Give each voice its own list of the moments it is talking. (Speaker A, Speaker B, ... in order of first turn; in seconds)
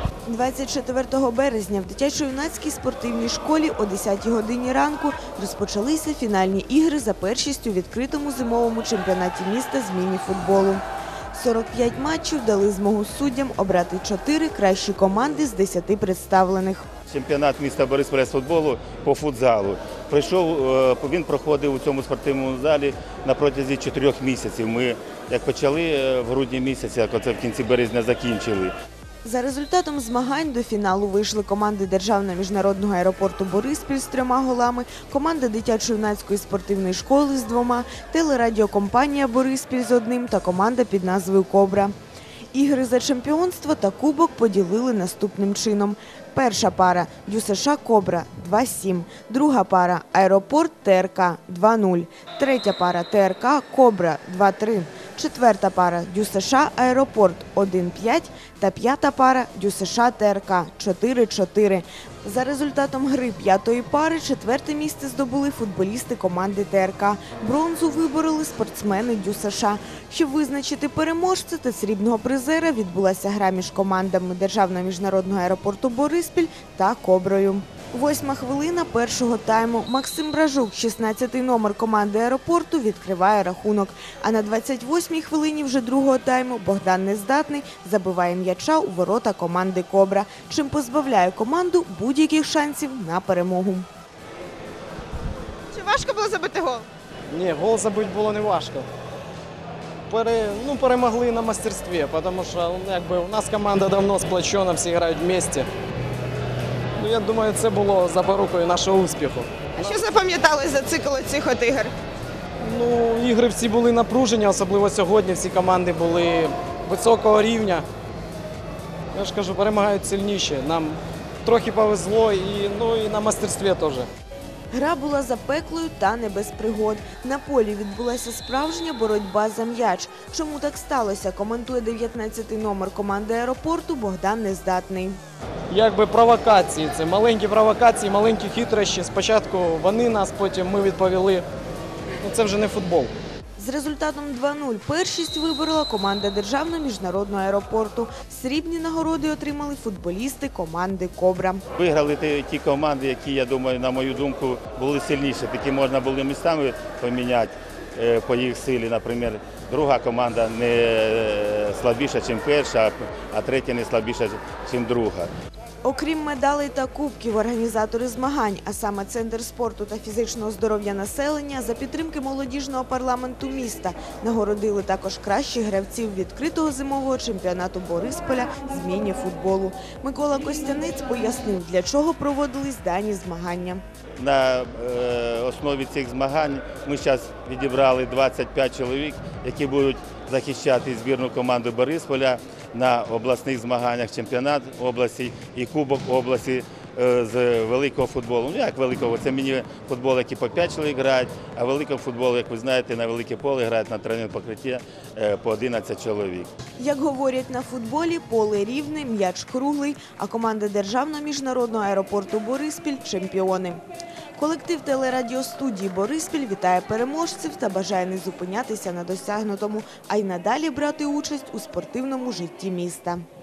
Speaker A: 0.2-16.9, 29.2-41.9, 42.5-93.9, 124.7-135.2, 143.6-151.6, 165.8-183.8, 206.8-213.8, 214.4-223.2
Speaker B: 17.1-28.7, 151.8-165.3, 184.2-206.5
Speaker C: 95.7-96.9, 109.8-111.9
Speaker D: 97.3-98.9, 100.1-105.7, 107.0-109.9, 112.6-117.8, 119.1-124.1, 135.7-141.4, 142.2-143.1